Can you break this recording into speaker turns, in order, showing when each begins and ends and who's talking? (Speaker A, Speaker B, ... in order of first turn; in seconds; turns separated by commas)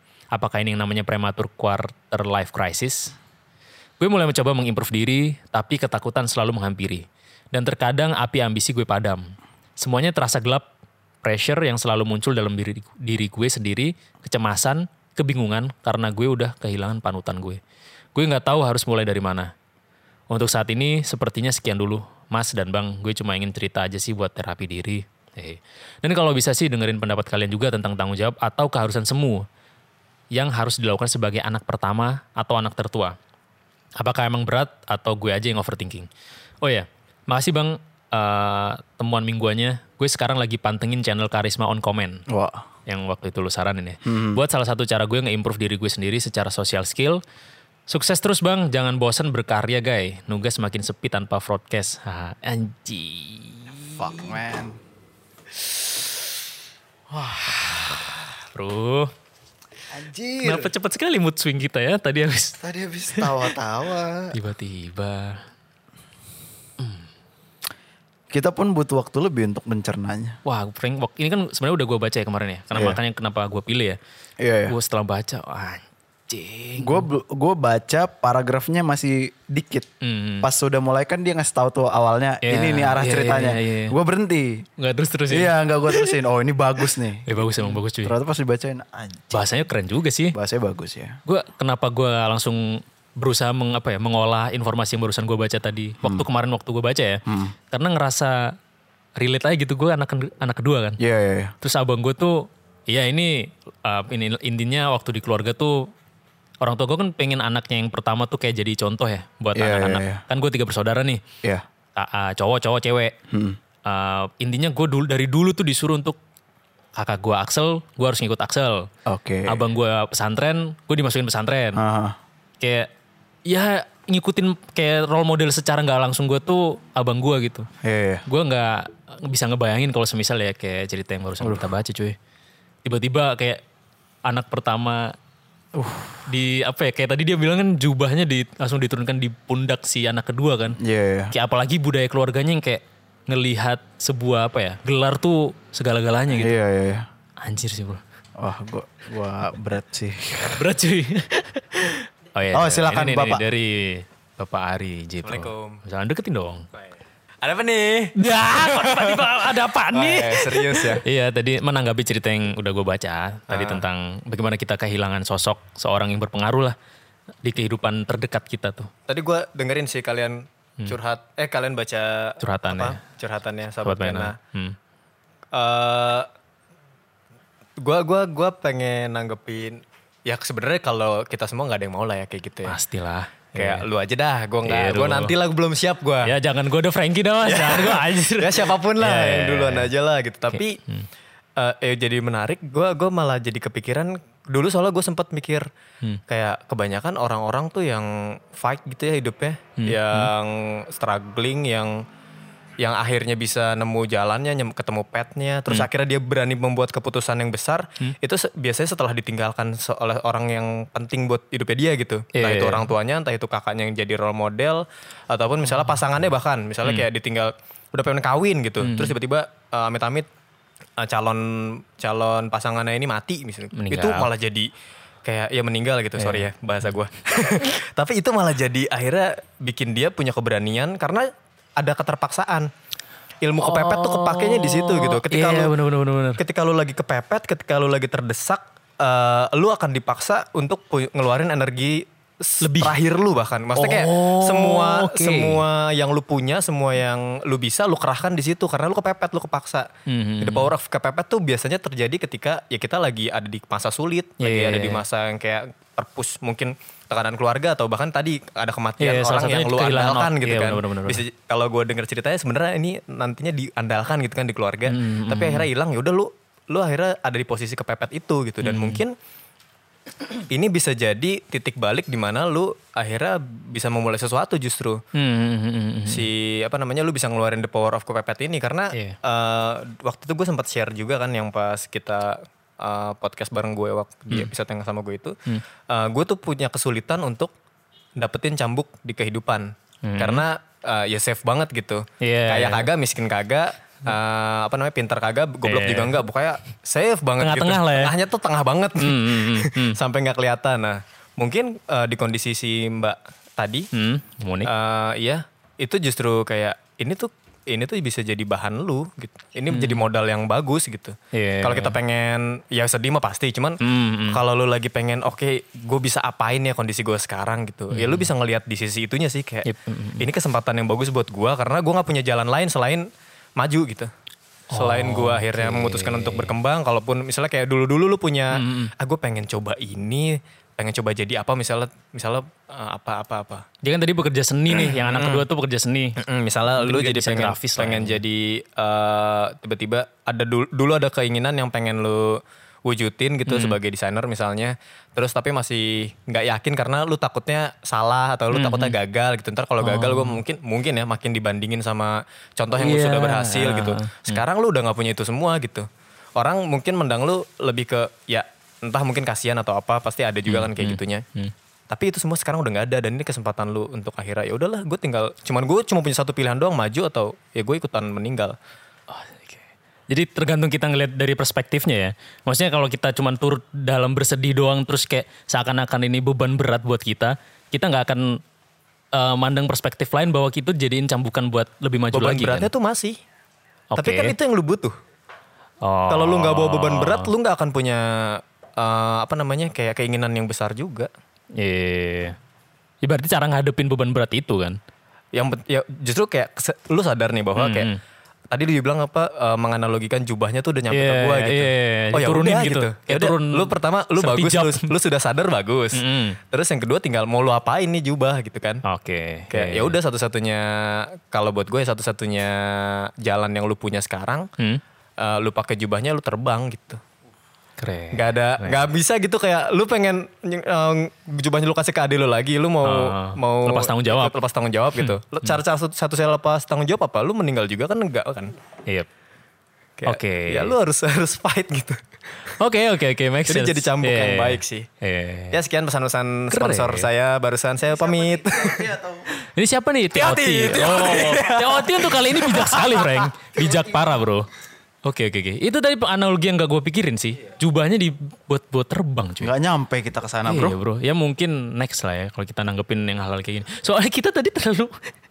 Speaker A: 0.3-3.1, Speaker A: 4.0-10.7, Speaker A: 11.2-17.6, Speaker A: 18.1-19.5, Speaker A: 20.3-29.4, Speaker A: 30.3-33.1, Speaker A: 34.0-36.1, Speaker A: 36.6-42.2, Speaker B: 42.3-42.6, Speaker A: 42.9-47.2, Speaker B: 44.0-44.4, Speaker A: 47.9-54.3, Speaker B: 54.0-54.8, Speaker B: 57.1-58.3, Speaker A: 57.6-58.0, Speaker A: 58.5-59.1, Speaker B: 59.9-60.7, Speaker A: 60.4-62.6, Speaker B: 62.6-64.3, Speaker A: 63.1-63.5, Speaker A: 64.3-65.4, Speaker A: 66.8-67.0, Speaker B: 68.3-70.4, Speaker A: 70.4-74.0, Speaker B: 72.7-73.0, Speaker B: 74.4-74.7, Speaker A: 74.7-77.1, Speaker B: 76.8-79.9, Speaker A: 80.0-80.5, Speaker B: 80.4-84.7, Speaker A: 82.4-83.9, Speaker A: 84.8-86.1, Speaker B: 85.3-89.4, Speaker A: 87.2-88.1, Speaker A: 89.3-90.3, Speaker B: 90.3-91.2, Speaker A: 91.2-98.5, Speaker B: 97.3-97.5, Speaker A: 99.2-101.0, Speaker B: 101.0-101.5, Speaker A: 101.6-105.9, Speaker A: 106.6-111.2, Speaker B: 109.5-110.2, Speaker A: 111.9-113.1, Speaker B: 113.3-113.6, Speaker A: 113.8-116.2, Speaker A: 117.0-118.9, Speaker B: 119.0-119.6, Speaker A: 119.5-121.8, Speaker B: 121.8-122.2, Speaker A: 122.6-122.9, Speaker A: 123.5-127.7, Speaker B: 127.8-128.2, Speaker A: 128.2-132.2, Speaker B: 131.4-131.7, Speaker A: 132.8-133.6, Speaker A: 134.2-135.1, Speaker B: 135.7-136.2, Speaker A: 136.2-140.8, Speaker B: 140.8-141.3, Speaker A: 141.3-146.5, Speaker B: 146.3-147.1, Speaker A: 147.4-148.0, Speaker B: 148.4-150.6, Speaker A: 150.6-156.7, Speaker B: 152.5-153.4, Speaker C: 155.2-155.8, Speaker C: 157.4-161.0, Speaker A: 158.1-166.8, Speaker C: 163.5-163.8, Speaker A: 167.4-168.9, Speaker C: 169.1-174.3, Speaker A: 172.4-173.0, Speaker A: 173.8-174.8, Speaker C: 175.5-176.3, Speaker C: 177.8-182.8, Speaker A: 182.7-183.9, Speaker C: 183.6-186.3, Speaker A: 184.6-185.3, Speaker A: 186.2-189.9, Speaker C: 187.4-190.8, Speaker A: 190.5-191.1, Speaker C: 191.6-195.7, Speaker C: 196.3-202.0, Speaker A: 199.8-200.3, Speaker C: 202.8-220.3, Speaker A: 212.3-212.9, Speaker A: 218.8-219.1, Speaker C: 221.0-224.7, Speaker A: 223.7-224.3, Speaker C: 225.2-232.7, Speaker A: 226.2-226.9, Speaker C: 233.4-235.7, Speaker A: 233.6-236.4, Speaker C: 236.4-249.9, Speaker A: 242.6-242.9, Speaker A: 243.8-245.6, Speaker A: 250.1-250.7, Speaker C: 250.4-269.1, Speaker A: 254.4-255.0, Speaker A: 259.0-261.2, Speaker A: 264.9-265.7, Speaker A: 268.6-269.0, Speaker C: 270.5-275.0, Speaker A: 275.1-276.3, Speaker C: 276.1-285.4, Speaker C: 285.9-287.5, Speaker C: 288.2-303.9, Speaker A: 290.0-290.4, Speaker A: 292.2-292.9, Speaker A: 295.6-296.2, Speaker A: 297.4-298.1, Speaker A: 299.0-300.0, Speaker A: 303.9-304.7, Speaker C: 304.6-319.7, Speaker A: 309.7-310.1, Speaker A: 311.3-311.9, Speaker A: 313.8-314.4, Speaker A: 317.9-318.3, Speaker A: 319.6-320.2, Speaker C: 320.2-324.1, Speaker A: 324.7-326.6, Speaker C: 324.7-333.7, Speaker A: 328.5-328.9, Speaker A: 333.8-336.2, Speaker C: 334.7-335.4, Speaker C: 336.2-361.2, Speaker A: 336.8-338.2, Speaker A: 343.5-343.8, Speaker A: 348.5-348.9, Speaker A: 349.8-350.4, Speaker A: 352.8-354.4, Speaker A: 360.4-361.5, Speaker C: 361.9-368.5, Speaker A: 369.1-378.4, Speaker A: 379.1-382.7, Speaker C: 382.1-383.2, Speaker A: 383.9-384.3, Speaker C: 384.0-384.9, Speaker A: 385.8-387.3, Speaker C: 386.1-391.1, Speaker A: 391.6-392.4, Speaker A: 393.0-394.8, Speaker C: 395.3-397.9, Speaker A: 397.6-398.0, Speaker C: 398.5-408.8, Speaker A: 400.9-404.9, Speaker A: 405.9-406.4, Speaker A: 408.8-409.9, Speaker C: 409.5-414.5, Speaker C: 415.2-417.0, Speaker A: 417.8-418.9, Speaker C: 418.1-428.5, Speaker A: 422.8-424.3, Speaker A: 425.0-425.6, Speaker C: 430.0-432.5, Speaker A: 430.1-430.7, Speaker A: 432.6-435.6, Speaker C: 433.5-434.9, Speaker C: 435.5-438.9, Speaker A: 436.5-437.1, Speaker B: 437.9-439.3, Speaker A: 439.4-444.4, Speaker C: 440.1-442.9, Speaker A: 445.0-449.5, Speaker B: 449.4-450.8, Speaker A: 450.4-455.1